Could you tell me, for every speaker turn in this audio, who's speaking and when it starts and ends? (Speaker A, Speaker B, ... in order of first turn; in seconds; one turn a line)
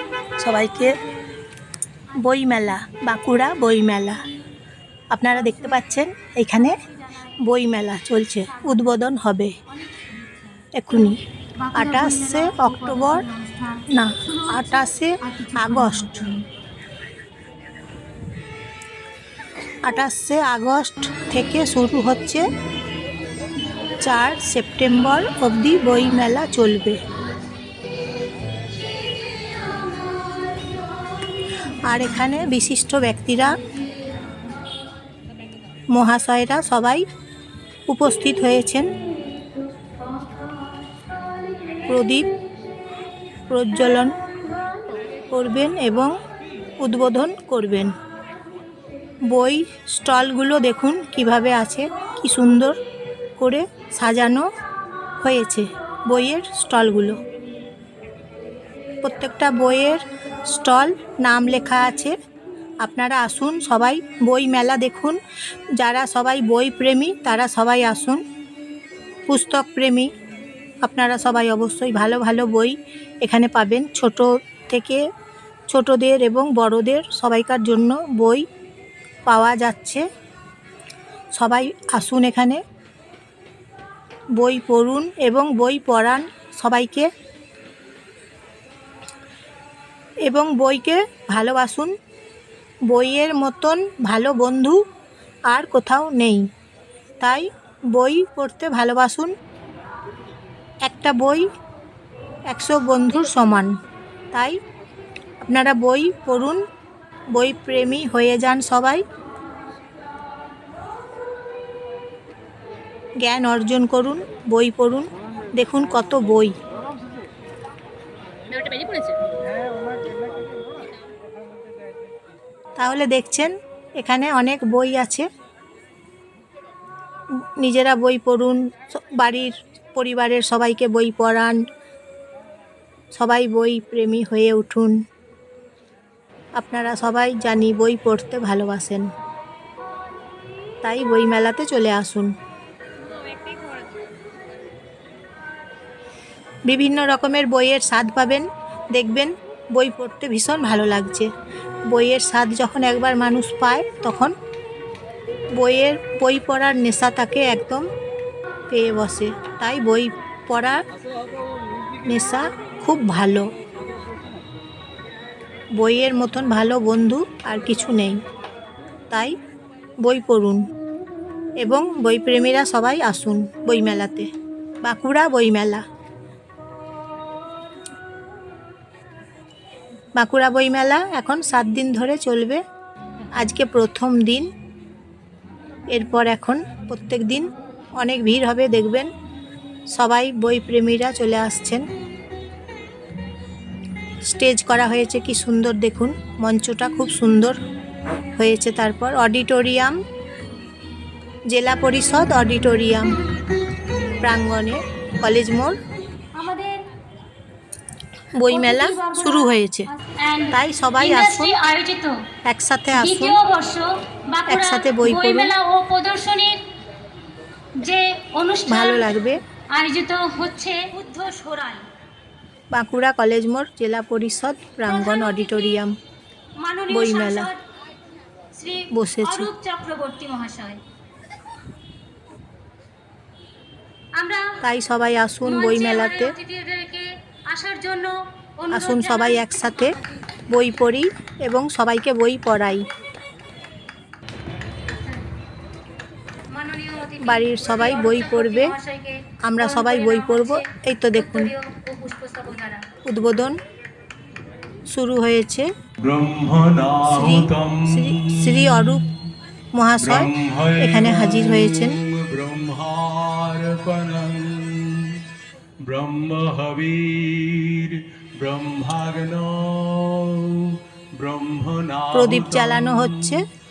Speaker A: 0.4-1.0
Speaker A: 2.2-4.2
Speaker A: 5.1-6.8
Speaker B: 5.3-6.0
Speaker B: 6.6-7.3
Speaker A: 7.4-9.6
Speaker B: 8.5-9.0
Speaker B: 9.7-16.4
Speaker A: 10.7-11.2
Speaker A: 11.8-13.3
Speaker A: 13.9-16.1
Speaker A: 19.9-22.4
Speaker A: 24.0-27.0
Speaker A: 31.9-33.6
Speaker A: 35.9-37.0
Speaker A: 37.9-38.9
Speaker A: 41.9-42.3
Speaker A: 43.5-44.1
Speaker A: 45.3-46.1
Speaker A: 46.8-47.9
Speaker A: 49.3-52.8
Speaker A: 53.4-54.5
Speaker A: 55.2-57.2
Speaker A: 59.0-62.1
Speaker A: 62.8-65.2
Speaker A: 65.8-68.2
Speaker A: 69.3-70.1
Speaker A: 70.8-75.0
Speaker A: 75.7-78.5
Speaker A: 79.3-80.0
Speaker A: 81.4-82.6
Speaker A: 84.4-87.1
Speaker A: 90.3-91.9
Speaker A: 92.9-94.8
Speaker A: 95.5-96.5
Speaker A: 97.2-99.3
Speaker A: 100.8-101.5
Speaker A: 102.5-103.7
Speaker A: 104.3-104.6
Speaker A: 105.4-106.6
Speaker A: 107.3-109.0
Speaker A: 113.2-116.5
Speaker B: 118.6-119.2
Speaker A: 122.8-125.3
Speaker A: 127.6-131.6
Speaker A: 133.1-134.9
Speaker A: 136.6-139.1
Speaker A: 140.8-142.3
Speaker A: 146.7-151.3
Speaker A: 151.9-154.3
Speaker A: 155.6-157.9
Speaker A: 158.7-160.8
Speaker A: 162.1-163.5
Speaker A: 165.8-168.2
Speaker A: 170.0-170.6
Speaker A: 171.6-174.3
Speaker A: 174.8-175.8
Speaker A: 180.2-182.6
Speaker A: 183.4-184.5
Speaker A: 185.9-189.1
Speaker A: 189.9-191.8
Speaker A: 194.3-197.6
Speaker A: 198.4-200.0
Speaker A: 201.5-203.1
Speaker A: 204.2-205.8
Speaker B: 206.3-206.8
Speaker A: 208.4-209.9
Speaker B: 208.5-212.2
Speaker A: 210.5-211.6
Speaker A: 212.4-213.4
Speaker B: 212.9-216.6
Speaker A: 214.5-215.6
Speaker B: 217.8-219.2
Speaker A: 218.7-219.4
Speaker B: 219.7-221.9
Speaker A: 222.7-225.9
Speaker B: 224.9-225.8
Speaker B: 226.6-227.6
Speaker A: 226.9-227.5
Speaker B: 228.6-230.8
Speaker A: 228.9-229.5
Speaker B: 234.2-234.6
Speaker A: 234.6-236.3
Speaker B: 235.4-240.2
Speaker A: 238.7-240.0
Speaker A: 240.5-242.8
Speaker B: 244.9-245.3
Speaker B: 246.5-252.8
Speaker A: 247.2-248.7
Speaker A: 249.4-251.5
Speaker A: 253.1-253.6
Speaker A: 254.9-255.7
Speaker C: 256.0-259.0
Speaker A: 257.1-259.0
Speaker A: 259.8-262.0
Speaker C: 260.0-265.2
Speaker C: 265.9-273.4
Speaker A: 272.1-273.4